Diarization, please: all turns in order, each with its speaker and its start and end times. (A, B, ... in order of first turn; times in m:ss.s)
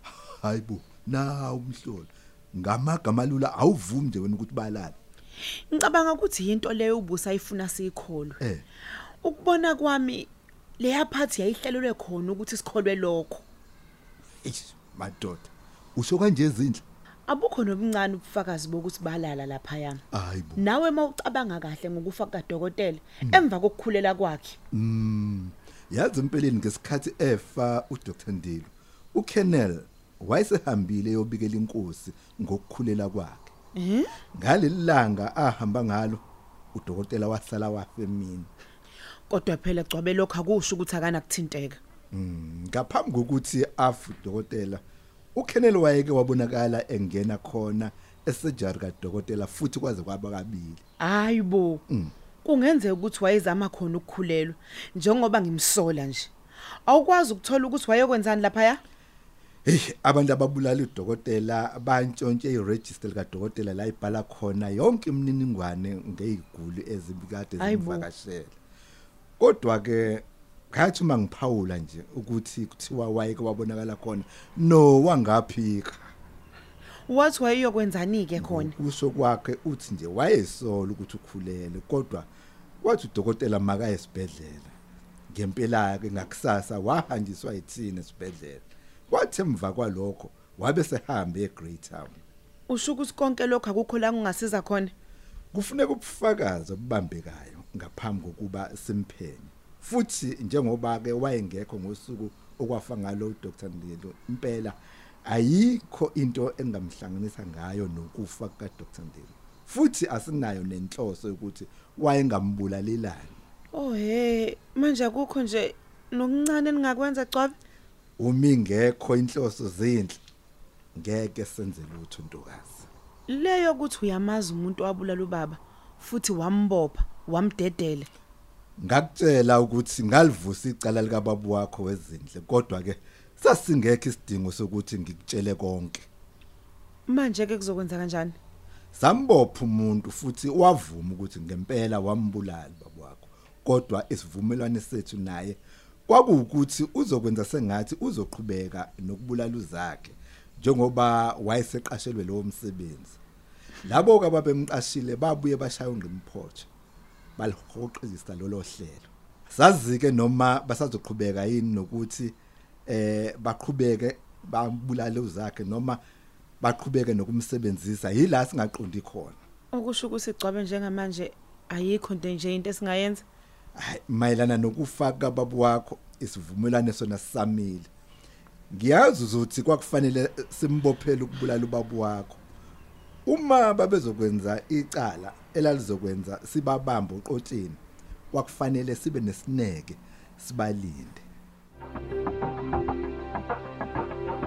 0:00.2-0:05.0 A
0:05.7-0:08.4 B
0:09.2-0:13.4 B
0:14.4-0:16.8 A
0:17.3-0:20.0 B
0:20.1-0:20.6 A
0:20.6-0:24.6 B
0:24.7-0:33.5 A
0:33.8-0:34.1 B
0:34.3-0:36.2 A
0:36.7-0:38.5 A
0:39.3-0:41.8 B
0:42.1-0:44.8 A
0:45.4-0:50.8 A
0:51.0-0:51.8 B
0:52.4-0:56.3 B
0:56.9-0:58.8 B
0:59.7-1:08.6 A
1:07.6-1:08.1 B
1:09.4-1:16.1 A
1:17.1-1:18.8 B
1:18.4-1:22.3 A
1:22.8-1:24.7 A
1:25.3-1:32.2 A
1:32.7-1:34.9 B
1:35.5-1:53.4 A
1:53.7-1:57.6 B
1:58.2-2:00.2 A
2:01.0-2:02.9 A
2:03.3-2:08.1 B
2:08.8-2:16.1 A
2:17.1-2:18.4 B
2:18.9-2:33.2 A
2:33.8-2:36.7 A
2:37.4-2:42.4 A
2:42.9-2:46.0 A
2:46.6-2:49.4 A
2:49.7-2:53.2 B
2:53.8-2:57.9 A
2:58.7-3:02.4 A
3:03.3-3:07.8 A
3:08.3-3:11.2 A